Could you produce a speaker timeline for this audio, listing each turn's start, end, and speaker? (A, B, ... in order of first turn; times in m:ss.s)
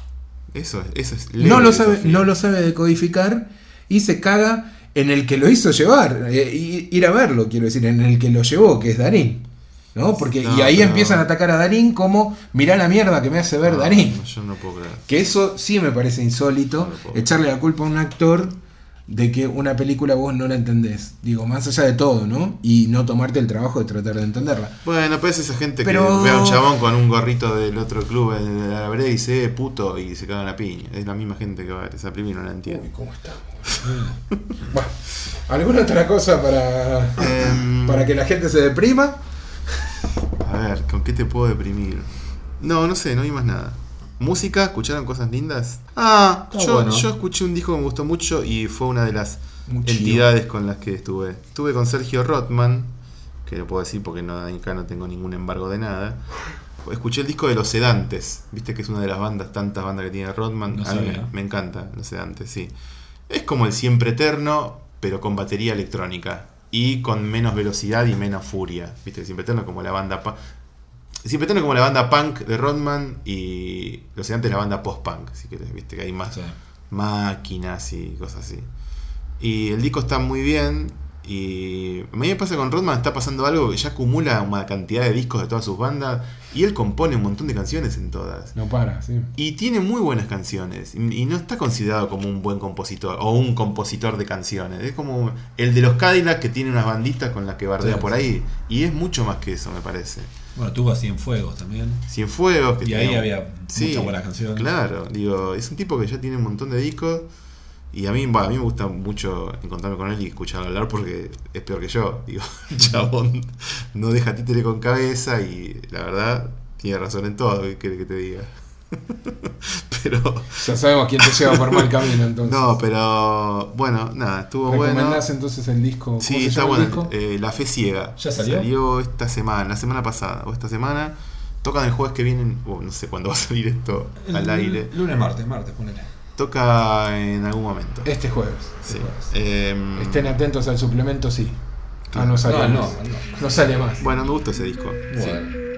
0:00.5-0:02.3 A
0:01.4-0:14.2 B
0:10.4-0:11.3 A
0:13.6-0:15.1 A
0:15.1-0:18.6 B
0:16.8-0:17.4 A
0:19.1-0:24.8 B
0:24.8-0:32.8 A
0:25.8-0:26.7 B
0:32.7-0:34.1 B
0:34.7-0:39.2 B
0:37.2-0:38.1 A
0:40.4-0:52.9 A
0:46.5-0:47.1 C
0:49.7-0:50.3 B
0:53.4-0:56.2 A
0:56.8-1:02.7 A
1:00.7-1:01.3 C
1:03.3-1:10.4 A
1:11.2-1:16.4 A
1:16.9-1:18.7 A
1:19.4-1:28.6 A
1:28.6-1:29.3 B
1:29.4-1:40.3 A
1:37.8-1:38.1 C
1:40.6-1:42.0 C
1:42.1-1:47.3 A
1:42.8-1:44.7 C
1:47.9-2:05.2 A
2:00.6-2:02.8 B
2:04.7-2:07.1 B
2:06.2-2:14.9 A
2:08.2-2:08.7 C
2:14.2-2:16.1 C
2:16.4-2:18.1 A
2:18.0-2:18.8 B
2:18.8-2:20.4 A
2:18.9-2:19.3 C
2:20.0-2:21.6 B
2:22.1-2:22.5 A
2:22.1-2:24.1 B
2:22.4-2:23.5 C
2:24.0-2:25.2 A
2:25.1-2:25.4 C
2:25.1-2:25.5 B